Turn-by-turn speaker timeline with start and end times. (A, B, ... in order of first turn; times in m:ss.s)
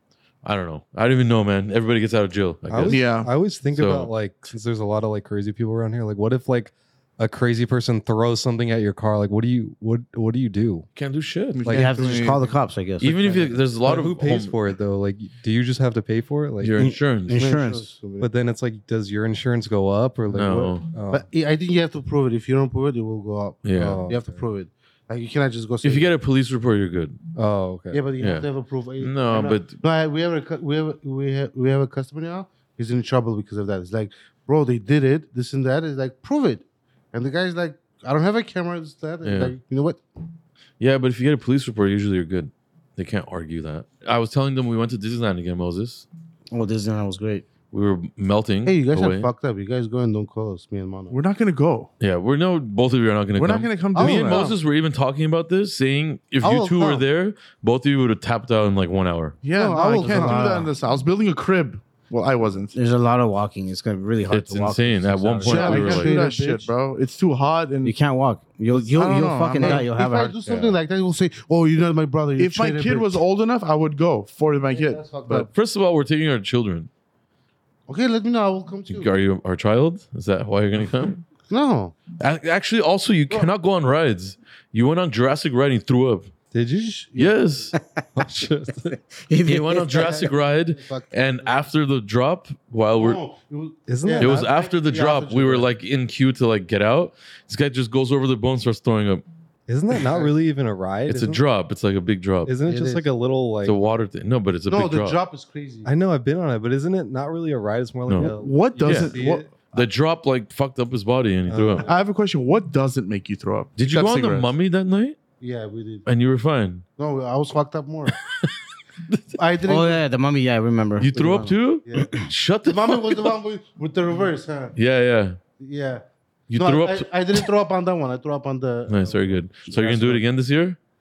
0:00.4-0:03.1 A
0:02.7-0:10.9 B
0:02.8-0:03.3 C
0:03.7-0:04.1 A
0:11.0-0:11.7 A
0:11.6-0:12.5 C
0:11.7-0:12.3 B
0:11.7-0:13.1 D
0:13.0-0:14.6 A
0:13.1-0:16.9 B
0:16.6-0:17.5 A
0:16.8-0:17.9 D
0:17.3-0:18.3 E
0:18.2-0:21.3 B
0:20.3-0:20.9 A
0:20.5-0:26.1 E
0:23.6-0:24.0 A
0:23.8-0:24.4 B
0:25.8-0:27.2 A
0:27.4-0:28.1 B
0:27.9-0:40.0 E
0:28.2-0:28.5 A
0:29.0-0:29.8 A
0:39.2-0:39.6 A
0:40.8-0:46.1 A
0:46.5-0:47.5 D
0:47.7-0:49.3 A
0:48.6-0:51.2 E
0:51.1-0:51.9 C
0:52.0-0:59.4 A
0:53.4-0:54.5 C
0:54.0-0:54.6 E
0:56.4-0:57.0 E
0:59.4-1:02.8 C
0:59.5-1:00.7 E
1:00.0-1:00.5 A
1:02.8-1:05.9 D
1:04.3-1:06.2 A
1:05.4-1:06.7 E
1:05.5-1:08.0 C
1:07.8-1:10.4 D
1:08.7-1:09.9 C
1:09.6-1:13.2 E
1:10.5-1:10.8 B
1:12.4-1:15.5 C
1:14.7-1:15.5 E
1:15.3-1:16.9 A
1:17.9-1:19.1 E
1:18.9-1:21.2 A
1:21.5-1:22.0 E
1:22.2-1:26.3 A
1:26.5-1:27.0 B
1:26.8-1:27.7 E
1:27.2-1:27.8 A
1:27.7-1:28.0 D
1:28.2-1:29.0 B
1:29.2-1:30.3 D
1:29.4-1:33.2 A
1:30.7-1:31.6 E
1:33.0-1:35.7 E
1:33.9-1:34.5 B
1:34.2-1:39.2 A
1:39.7-1:41.4 B
1:41.1-1:42.5 A
1:42.4-1:43.8 B
1:42.7-1:43.1 E
1:43.6-1:45.2 A
1:44.7-1:45.9 E
1:45.8-1:49.5 B
1:48.1-1:51.9 A
1:48.1-1:49.5 C
1:51.5-1:51.9 B
1:51.9-1:54.5 C
1:53.8-1:55.2 A
1:55.4-1:56.1 E
1:56.1-1:56.8 A
1:57.0-1:58.2 E
1:58.3-1:58.6 A
1:59.4-2:00.0 E
1:59.6-2:02.3 D
2:01.0-2:03.3 A
2:01.9-2:02.1 E
2:02.7-2:04.8 E
2:04.8-2:05.4 A
2:05.6-2:10.2 E
2:06.5-2:07.5 A
2:08.9-2:10.8 A